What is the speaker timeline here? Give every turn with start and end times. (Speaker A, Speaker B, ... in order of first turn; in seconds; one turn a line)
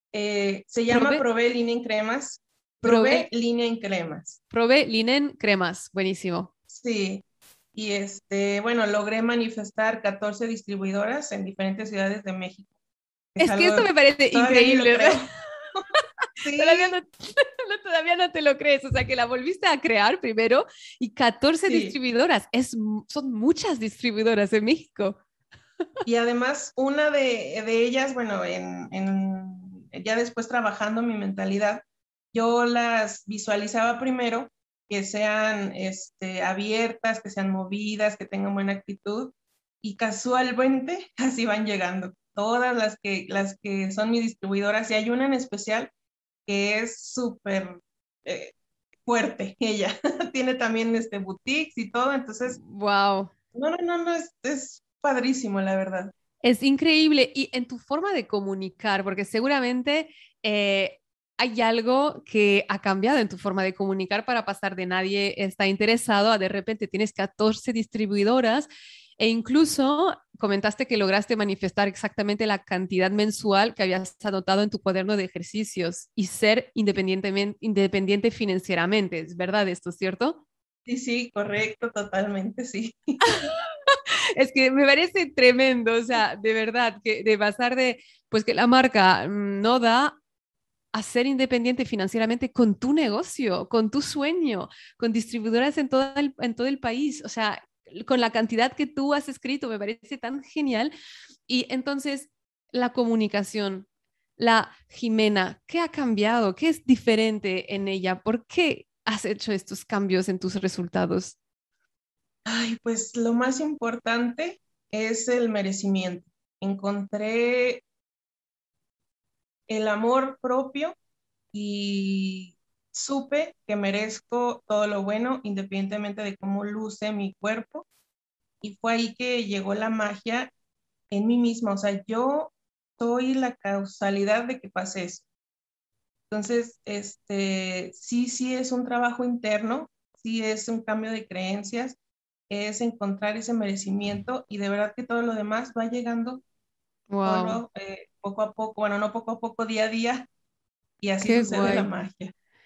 Speaker A: 0.1-4.4
Speaker B: 0.9-1.2
Speaker B: 2.8-3.3
Speaker B: 4.5-6.5
Speaker A: 6.7-12.7
Speaker A: 13.3-15.8
Speaker B: 13.4-15.2
Speaker A: 16.4-16.9
Speaker B: 16.6-25.2
Speaker A: 21.7-21.9
Speaker A: 26.1-45.9
Speaker A: 46.5-48.5
Speaker A: 49.1-52.6
Speaker B: 52.5-53.3
Speaker A: 53.5-56.1
Speaker B: 56.4-80.4
Speaker A: 80.9-83.2
Speaker B: 83.3-90.2
Speaker B: 90.9-100.9
Speaker B: 101.5-103.9
Speaker B: 104.4-111.4
Speaker A: 112.5-117.8
Speaker A: 119.7-121.0
Speaker A: 121.5-127.9
Speaker A: 128.6-130.5
Speaker A: 131.1-135.2
Speaker A: 136.3-142.0
Speaker A: 142.5-146.4
Speaker B: 147.1-147.6
Speaker A: 147.2-150.3
Speaker A: 151.0-152.3
Speaker B: 151.2-151.9